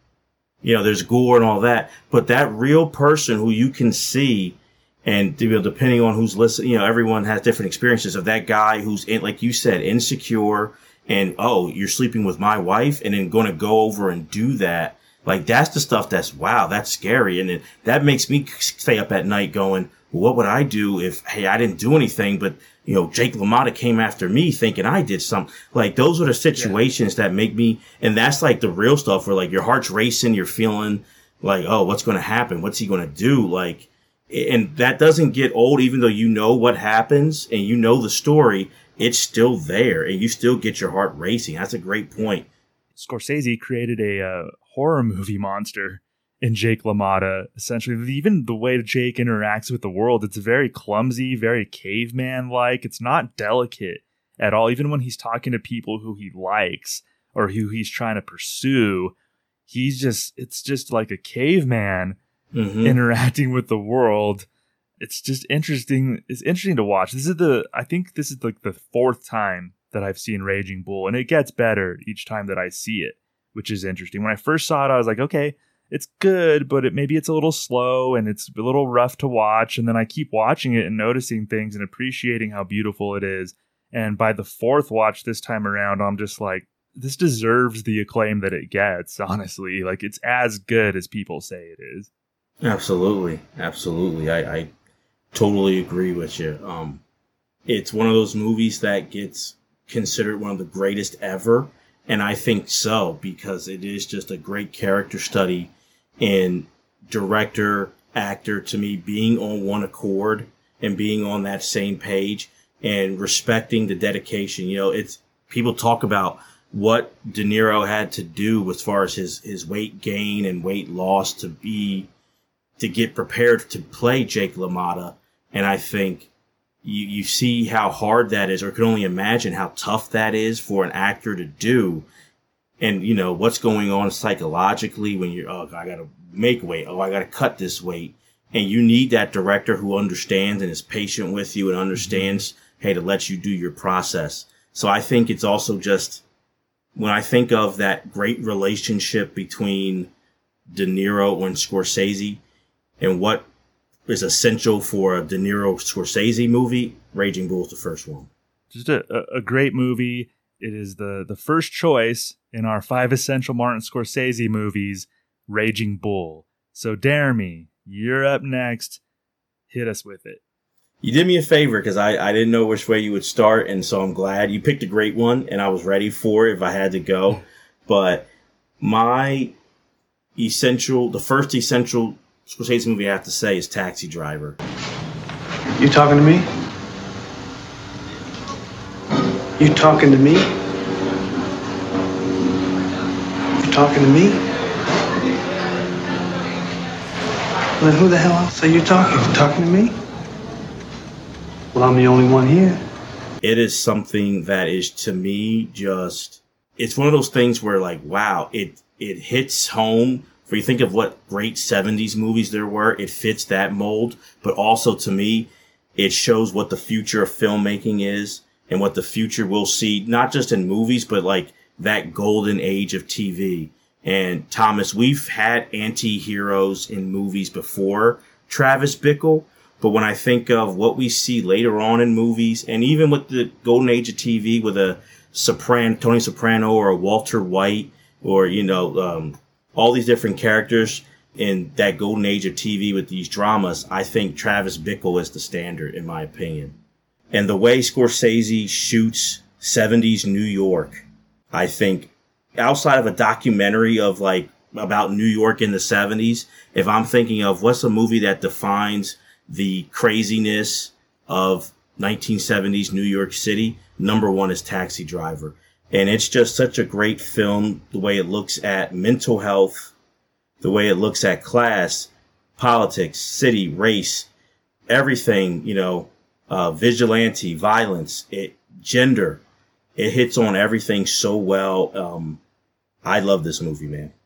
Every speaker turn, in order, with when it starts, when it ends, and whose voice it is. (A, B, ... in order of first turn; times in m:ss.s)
0:00.6-0:42.5 A
0:43.0-0:59.1 B
0:59.7-1:02.2 B
1:02.5-1:03.0 A
1:02.8-1:04.4 B
1:05.0-1:32.1 B
1:32.6-1:34.7 A
1:35.3-1:37.0 A
1:37.7-2:02.1 A
2:02.8-2:06.3 A
2:06.8-2:12.1 A
2:12.8-2:26.2 A
2:22.0-2:22.4 B
2:27.0-2:30.1 A
2:30.7-2:32.4 A
2:33.0-2:33.5 A
2:34.1-2:38.3 A
2:38.7-2:49.0 B
2:49.7-2:50.4 B
2:51.0-2:58.3 A
2:58.8-2:59.5 A
3:00.4-3:04.6 A
3:05.8-3:06.4 C
3:09.6-3:10.4 C
3:13.6-3:14.4 C
3:17.8-3:19.9 C
3:21.7-3:22.8 C
3:23.4-4:06.8 A
4:07.3-4:29.9 A
4:30.6-4:34.3 A
4:34.9-4:39.4 A
4:40.0-4:42.4 A
4:43.0-4:44.1 A